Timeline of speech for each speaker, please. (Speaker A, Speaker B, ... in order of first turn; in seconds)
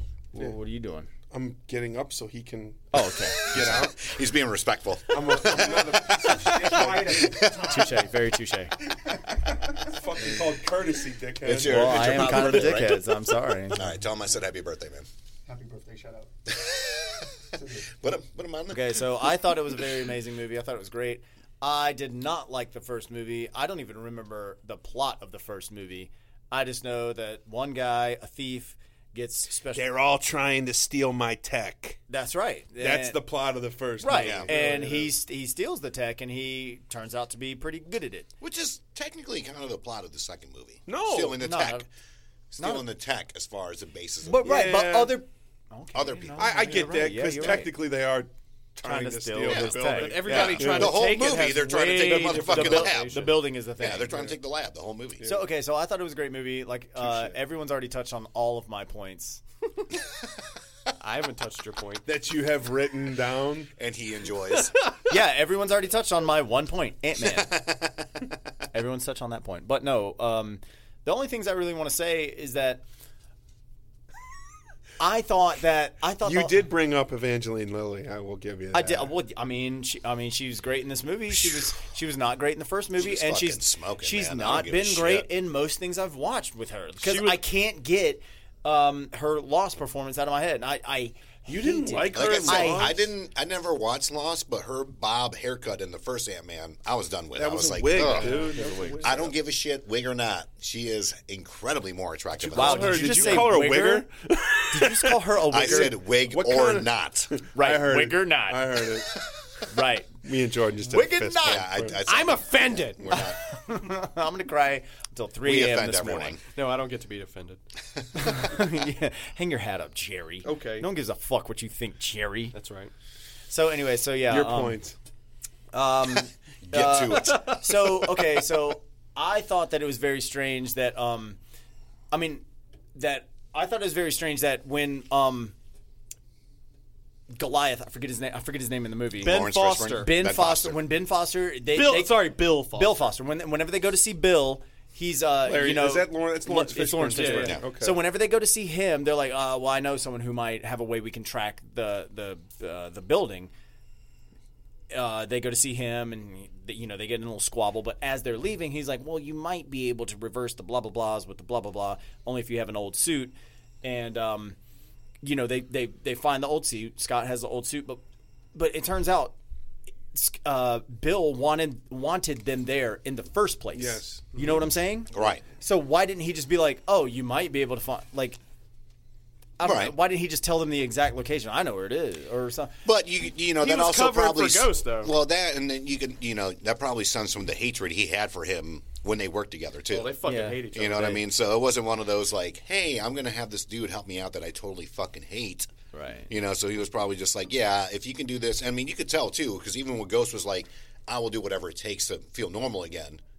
Speaker A: 0.3-1.1, 2.9-3.4, 7.6-8.7, 11.6-13.9, 18.7-29.8, 32.1-33.2, 34.0-38.3, 41.4-41.9, 42.6-42.8, 44.2-47.8, 48.8-54.2, 55.2-59.4, 65.1-67.5, 68.7-72.8, 75.0-76.7, 78.7-93.0, 98.0-99.0, 102.5-104.1, 104.7-105.9, 107.5-108.8, 109.7-110.1, 110.9-111.7, 113.1-116.4, 118.2-122.5, 123.5-124.8, 125.7-131.4, 132.1-132.4, 132.9-135.5, 137.3-153.5, 154.9-164.6, 165.2-168.0, 168.5-169.3, 170.1-175.1, 175.6-178.4, 179.6-182.7, 190.2-190.6, 195.9-196.3
Speaker B: 1.3-4.1, 5.1-7.3, 9.8-12.7, 29.7-32.0, 32.8-35.1, 40.9-41.4, 44.4-45.2, 46.4-51.1, 57.0-57.3, 62.0-63.7, 76.2-79.1, 91.5-93.0, 97.3-99.3, 102.4-109.1, 110.2-112.0, 124.3-125.0, 145.4-148.0, 173.7-174.2
Speaker C: 3.4-7.9, 11.4-13.1, 13.7-15.1, 16.5-17.2, 18.0-19.0, 34.1-34.5, 38.4-41.9, 42.5-44.8, 45.9-46.9, 49.4-55.2, 63.8-64.8, 67.4-68.0, 81.4-81.7, 83.0-85.3, 92.1-98.5, 99.0-103.4, 105.5-107.3, 111.4-113.4, 115.4-116.4, 126.7-127.7, 139.2-140.8, 175.1-175.4, 179.6-179.9, 182.8-190.1, 190.7-195.7, 196.3-203.2
Speaker D: 6.3-7.6, 15.5-16.3, 17.5-17.9
Speaker E: 49.9-53.3, 61.0-62.0, 87.0-87.4, 98.0-99.0, 112.1-113.0, 116.5-117.6, 120.4-120.9, 122.5-122.9, 127.2-127.6, 139.2-140.1, 141.7-143.0, 146.9-147.6, 183.6-185.1, 189.9-191.2